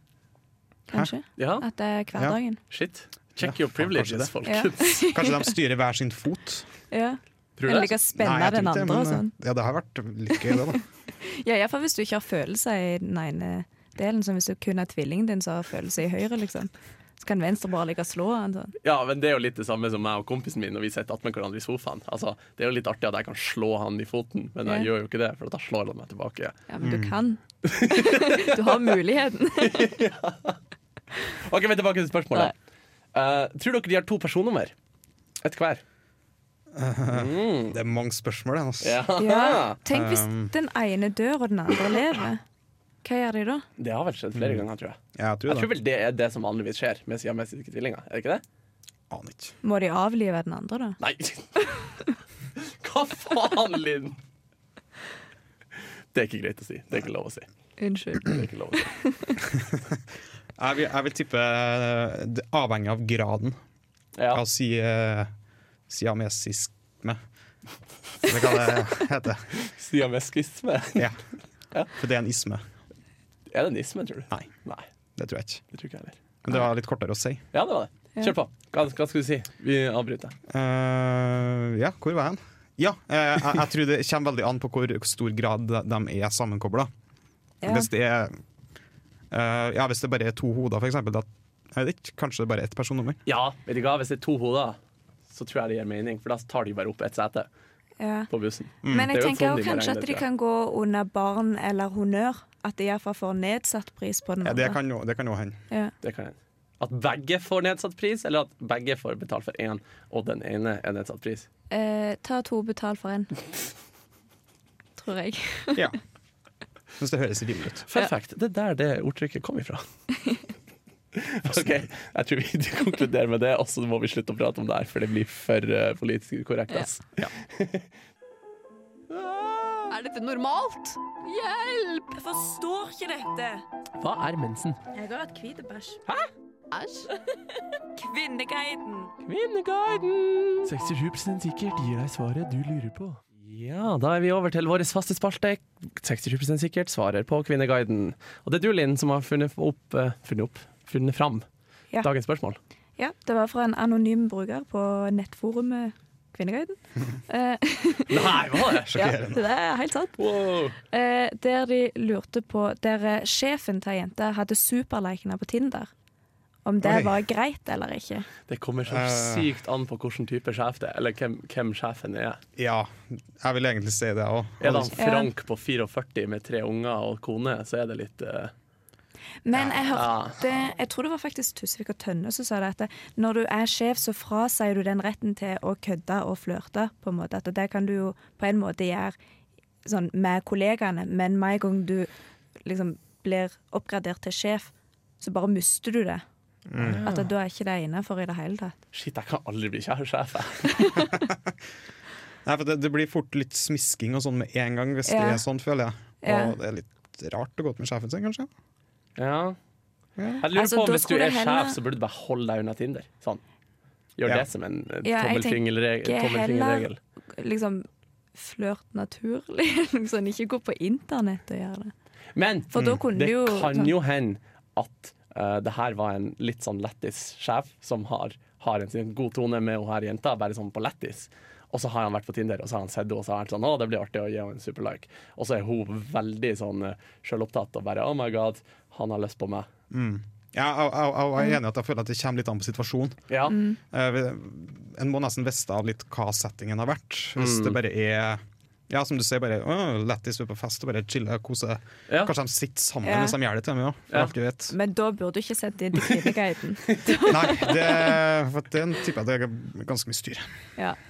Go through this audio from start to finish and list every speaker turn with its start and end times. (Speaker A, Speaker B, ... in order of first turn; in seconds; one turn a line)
Speaker A: 0.9-2.6
Speaker B: 1.4-1.6
Speaker B: 2.7-5.0
Speaker C: 3.4-4.3
Speaker A: 4.4-5.5
Speaker C: 5.1-6.7
Speaker A: 6.9-9.3
Speaker B: 7.6-7.9
Speaker C: 8.2-10.8
Speaker A: 10.4-18.7
Speaker B: 18.8-26.6
Speaker A: 26.7-30.0
Speaker C: 26.8-27.1
Speaker B: 27.6-28.9
Speaker B: 29.6-30.6
Speaker B: 31.3-32.5
Speaker B: 33.1-34.7
Speaker B: 35.4-35.8
Speaker C: 36.7-39.0
Speaker B: 37.1-37.8
Speaker B: 38.8-39.8
Speaker A: 39.2-42.4
Speaker C: 39.9-40.5
Speaker A: 43.0-43.6
Speaker B: 43.8-48.4
Speaker C: 44.3-44.6
Speaker C: 45.1-45.7
Speaker C: 49.1-49.5
Speaker A: 49.6-51.0
Speaker B: 51.0-51.5
Speaker B: 52.6-54.2
Speaker B: 56.1-57.5
Speaker A: 57.8-59.4
Speaker B: 58.2-58.9
Speaker C: 59.7-60.0
Speaker C: 60.6-63.6
Speaker B: 64.2-64.4
Speaker C: 64.3-65.3
Speaker C: 65.9-67.2
Speaker C: 68.2-69.5
Speaker B: 69.5-71.1
Speaker C: 72.0-72.6
Speaker B: 73.5-74.8
Speaker C: 75.2-75.6
Speaker B: 75.7-76.2
Speaker C: 76.4-77.4
Speaker B: 77.5-80.3
Speaker C: 80.5-86.9
Speaker A: 87.6-87.9
Speaker C: 87.6-88.3
Speaker C: 89.3-93.2
Speaker B: 93.2-94.8
Speaker B: 95.3-97.5
Speaker A: 98.0-98.3
Speaker B: 98.3-100.2
Speaker C: 98.8-99.1
Speaker A: 98.9-104.8
Speaker C: 104.4-105.6
Speaker B: 106.0-111.5
Speaker A: 111.7-113.3
Speaker A: 115.0-115.9
Speaker C: 117.0-117.8
Speaker B: 117.9-119.8
Speaker B: 121.1-127.8
Speaker B: 129.1-129.9
Speaker A: 129.9-133.6
Speaker B: 134.0-134.8
Speaker A: 134.9-136.0
Speaker A: 136.7-137.1
Speaker A: 137.9-139.1
Speaker B: 139.2-151.4
Speaker B: 152.0-152.6
Speaker A: 153.0-158.3
Speaker B: 158.1-159.0
Speaker C: 158.8-159.4
Speaker A: 158.9-160.2
Speaker B: 160.2-160.8
Speaker A: 160.8-165.9
Speaker A: 166.6-168.3
Speaker C: 166.8-167.1
Speaker B: 168.4-172.4
Speaker C: 168.9-169.5
Speaker C: 172.6-175.0
Speaker B: 174.6-178.5
Speaker A: 175.0-175.3
Speaker A: 179.4-189.2
Speaker B: 179.9-180.4
Speaker A: 189.8-192.1
Speaker A: 192.6-196.2
Speaker C: 196.7-197.1
Speaker B: 196.8-197.3
Speaker A: 197.1-198.8
Speaker B: 198.9-200.9
Speaker A: 200.7-201.1
Speaker C: 201.3-201.5
Speaker C: 202.4-208.5
Speaker A: 205.1-205.4
Speaker A: 206.2-206.6
Speaker B: 209.2-209.6
Speaker C: 210.2-210.4
Speaker B: 210.4-213.4
Speaker A: 210.5-211.8
Speaker B: 214.2-217.0
Speaker A: 215.0-221.9
Speaker B: 222.3-239.7
Speaker A: 222.7-223.9
Speaker C: 239.9-243.2
Speaker B: 243.3-243.6
Speaker A: 243.5-243.8
Speaker C: 243.8-254.7
Speaker B: 247.4-247.8
Speaker A: 253.0-253.4
Speaker A: 254.7-258.2
Speaker C: 257.3-260.5